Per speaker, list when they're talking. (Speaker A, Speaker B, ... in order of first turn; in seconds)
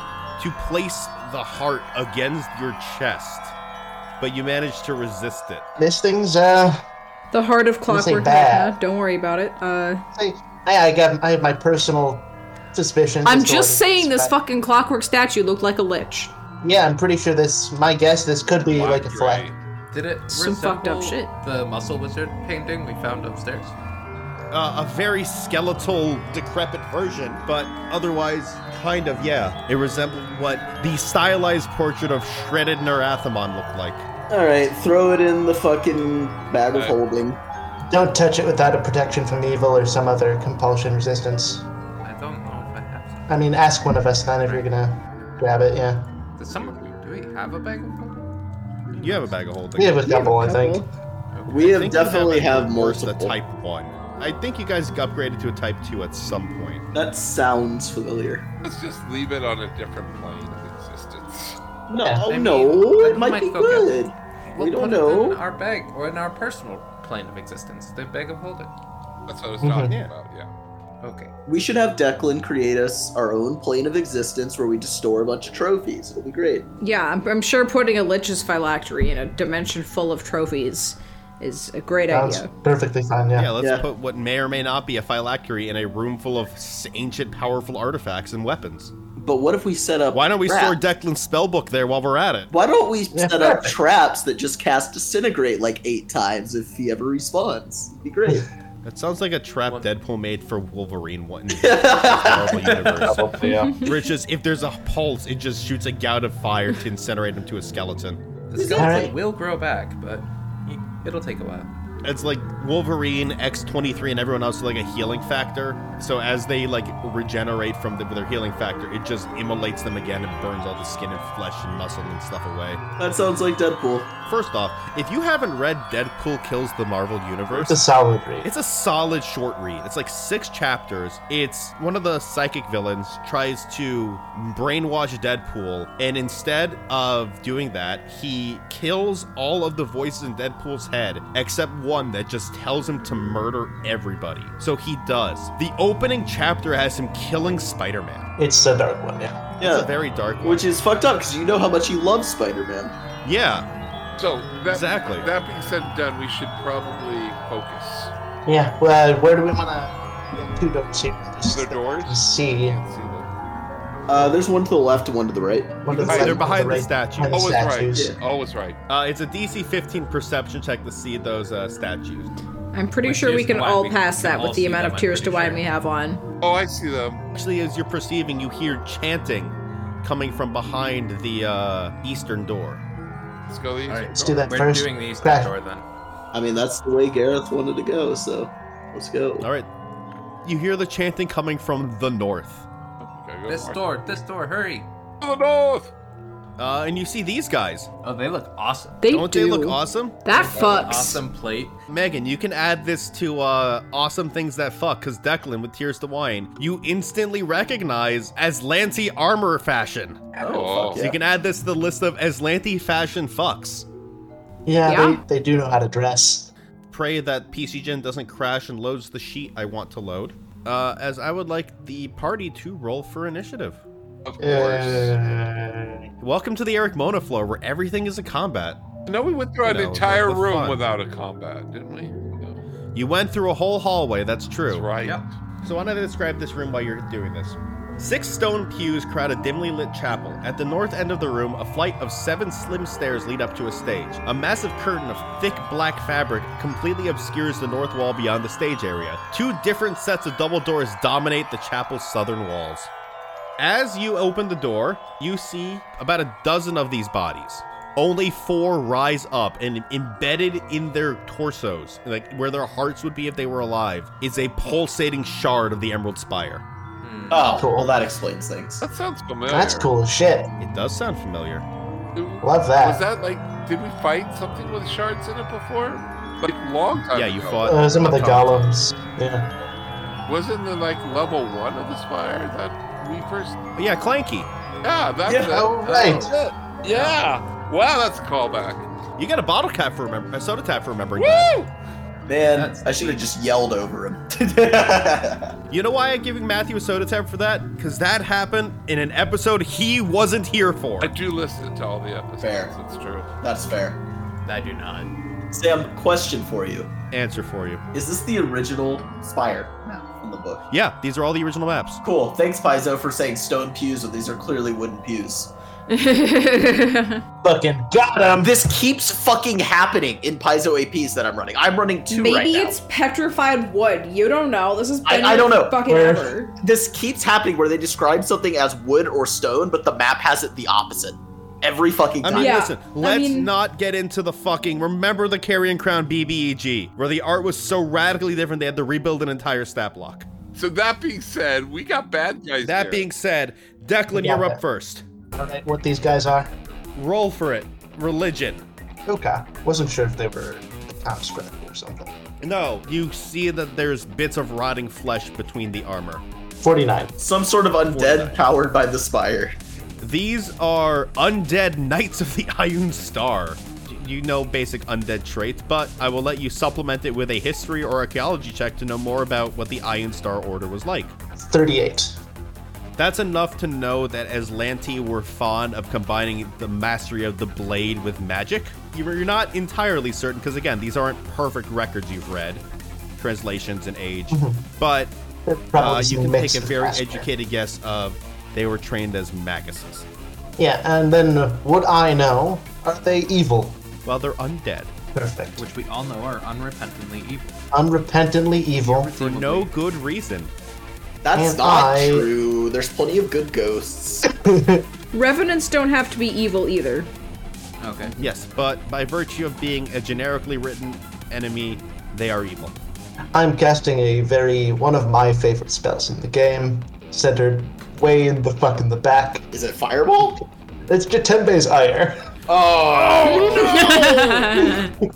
Speaker A: 0.4-3.5, 4.2-5.6, 24.5-34.1, 49.0-50.1, 51.6-56.8, 69.8-70.1, 83.3-88.9, 90.1-92.5, 98.8-108.2, 112.0-122.8, 124.3-127.8, 128.4-148.3, 149.6-150.6, 153.2-153.7, 154.7-155.3, 166.1-167.5, 168.9-172.3, 177.3-182.8, 189.4-189.7, 190.4-192.6, 196.6-197.9, 199.1-200.2, 201.9-210.2, 211.0-213.9, 216.9-223.8, 226.2-228.8, 229.6-230.8, 232.9-234.9, 235.6-252.9, 253.6-266.6, 270.6-271.6, 277.1-278.5, 283.8-284.5, 289.2-291.5, 295.7-301.1, 307.1-307.8, 310.7-312.0, 332.2-340.3, 342.6-345.0, 346.9-348.6, 352.4-356.2, 357.9-358.4, 360.0-371.1, 373.0-382.6, 383.2-385.1, 385.7-390.1, 394.0-394.9, 399.2-400.5, 408.2-412.7
Speaker B: 5.8-6.8, 7.9-8.8, 10.1-14.3, 16.6-19.5, 37.9-41.6, 43.3-46.1, 49.8-50.9, 62.0-62.3, 69.6-69.9, 82.1-83.5, 93.1-93.8, 103.0-103.7, 108.7-109.1, 127.5-128.5, 148.4-149.5, 158.4-162.8, 165.8-168.1, 184.1-185.5, 214.7-216.5, 224.4-226.1, 267.5-267.9, 269.5-270.5, 272.4-273.0, 277.6-279.5, 285.5-286.3, 317.4-318.6, 325.9-326.3, 344.1-344.6, 345.3-346.5, 349.1-352.1, 356.6-357.1, 371.4-372.2, 384.3-384.6, 385.4-387.3, 390.6-393.8, 395.1-395.6, 397.7-399.1, 401.3-402.3, 404.3-404.9, 413.3-419.5, 420.2-422.3, 423.4-424.9
Speaker C: 7.3-10.0, 13.2-16.3, 20.3-21.3, 76.8-82.5, 103.6-103.9, 172.7-176.2, 199.0-201.2, 214.8-215.2, 315.9-317.2, 322.1-326.5, 332.3-333.5, 405.1-407.1, 423.3-424.9
Speaker D: 18.6-19.6, 36.7-37.0, 46.5-46.9, 58.6-61.6, 69.3-70.5, 154.2-158.1, 161.4-163.3, 166.0-166.4, 167.3-168.8, 176.4-177.2, 183.5-184.5, 193.0-194.0, 195.2-195.9, 210.4-211.0, 224.2-225.2, 229.1-232.6, 234.7-235.3, 268.8-269.9, 272.1-277.7, 280.3-283.6, 284.8-288.8, 291.2-291.7, 301.0-303.3, 340.5-343.1, 422.5-424.1
Speaker E: 19.9-23.7, 42.0-43.2, 46.4-48.3, 49.0-49.2, 51.3-52.1, 62.3-68.7, 71.0-71.3, 102.6-103.7, 108.5-111.7, 173.0-175.6, 183.9-185.8, 193.5-194.9, 198.0-199.0, 200.3-201.8, 235.0-235.3, 267.0-267.6, 285.8-287.2, 292.5-293.3, 304.4-305.1, 395.6-397.6, 398.8-399.7, 407.8-408.2
Speaker F: 34.3-37.4, 50.0-50.9, 51.5-53.3, 56.9-58.5, 61.9-65.4, 71.5-76.7, 83.6-83.8, 89.2-90.8, 92.5-98.5, 101.5-102.7, 108.6-109.1, 123.0-124.1, 149.6-149.9, 150.4-152.9, 164.1-166.2, 186.3-189.5, 210.4-211.2, 267.3-268.8, 285.2-285.6, 292.3-295.5, 302.4-302.7, 303.4-304.0, 305.5-306.9, 307.9-310.6, 312.0-315.5, 318.4-322.8, 325.0-325.8, 326.6-332.6, 357.2-359.6, 401.2-404.2, 419.5-420.4, 423.0-424.8